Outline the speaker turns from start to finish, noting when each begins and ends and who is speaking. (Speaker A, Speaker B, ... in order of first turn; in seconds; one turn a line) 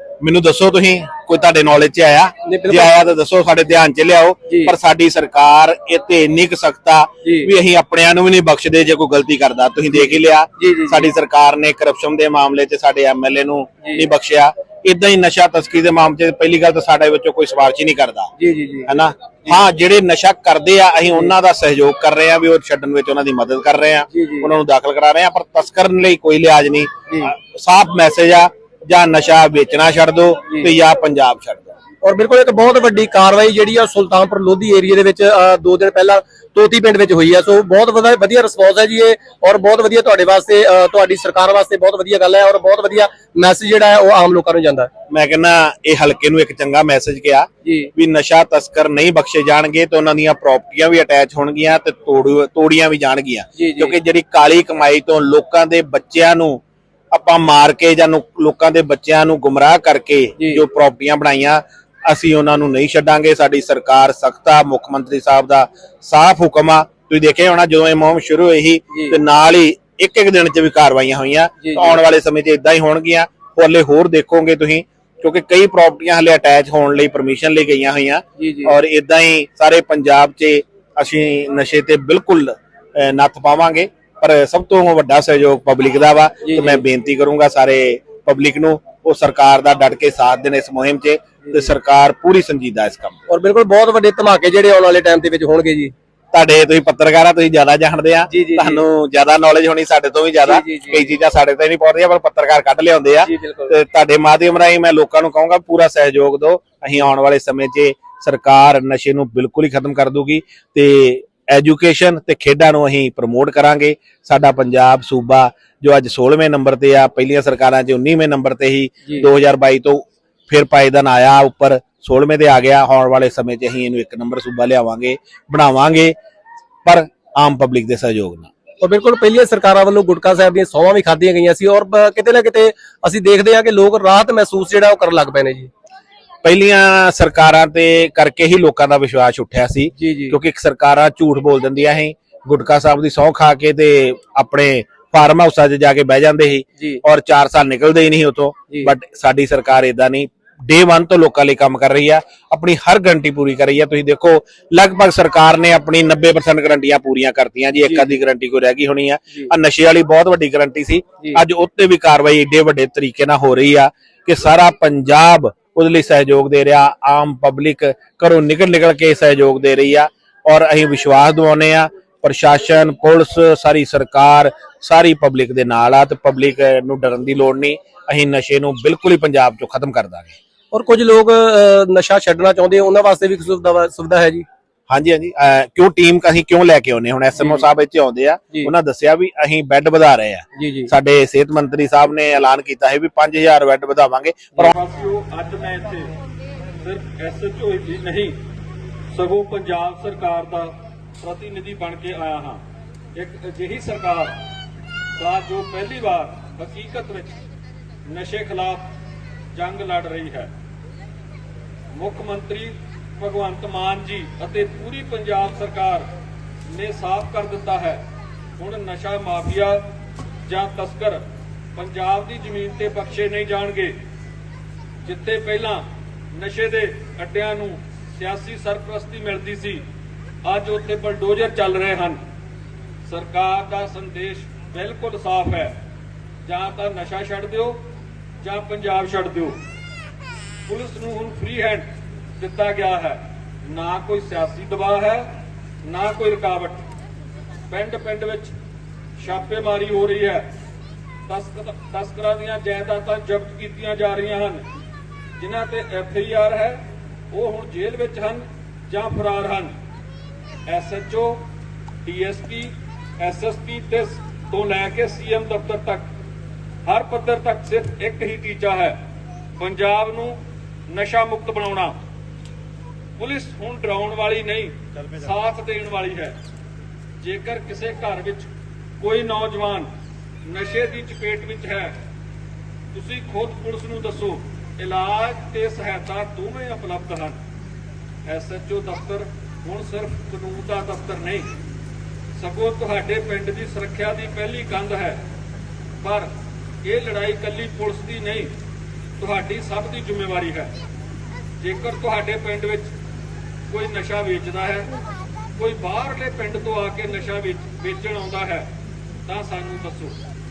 Speaker A: 0.2-18.3
Speaker B: 2.5-2.9
Speaker B: 4.5-4.8
Speaker B: 7.2-7.5
Speaker B: 9.9-11.1
Speaker B: 13.8-14.1
Speaker B: 18.4-18.9
Speaker A: 18.9-31.7
Speaker B: 24.1-24.5
Speaker B: 32.0-44.9
Speaker A: 45.1-93.2
Speaker B: 47.6-47.9
Speaker B: 53.5-54.0
Speaker B: 60.4-60.7
Speaker B: 68.9-69.2
Speaker B: 71.6-72.0
Speaker B: 78.4-78.8
Speaker B: 86.5-86.8
Speaker B: 93.3-95.9
Speaker A: 96.3-126.2
Speaker B: 98.3-98.8
Speaker B: 100.4-101.2
Speaker B: 103.2-103.7
Speaker A: 126.9-128.5
Speaker B: 128.8-135.7
Speaker A: 136.4-180.4
Speaker B: 140.0-140.4
Speaker B: 157.8-158.2
Speaker B: 180.7-184.5
Speaker A: 184.9-194.8
Speaker B: 187.4-187.7
Speaker B: 190.6-190.9
Speaker C: 194.6-196.1
Speaker C: 196.8-198.4
Speaker C: 199.1-202.6
Speaker C: 203.2-204.4
Speaker C: 205.2-207.4
Speaker C: 208.1-208.9
Speaker C: 209.6-210.5
Speaker C: 211.9-216.1
Speaker C: 216.7-218.0
Speaker C: 218.6-219.8
Speaker C: 220.5-221.2
Speaker C: 221.8-224.0
Speaker C: 225.0-229.8
Speaker C: 230.4-232.2
Speaker C: 233.1-235.7
Speaker C: 236.4-237.8
Speaker C: 238.4-239.6
Speaker C: 240.7-241.9
Speaker C: 242.4-246.8
Speaker C: 247.7-248.5
Speaker C: 249.2-250.5
Speaker C: 251.3-254.6
Speaker C: 255.4-256.8
Speaker C: 257.3-259.7
Speaker C: 260.7-261.4
Speaker C: 262.1-266.1
Speaker C: 266.9-269.0
Speaker C: 269.6-270.4
Speaker C: 270.9-272.0
Speaker C: 273.2-276.4
Speaker C: 277.2-278.5
Speaker C: 279.0-279.9
Speaker C: 280.5-282.0
Speaker C: 282.9-287.4
Speaker C: 288.3-291.5
Speaker C: 292.4-295.2
Speaker C: 296.0-296.3
Speaker C: 296.8-298.5
Speaker C: 299.2-300.7
Speaker C: 301.6-302.9
Speaker C: 303.7-304.9
Speaker C: 305.6-308.7
Speaker C: 309.3-310.2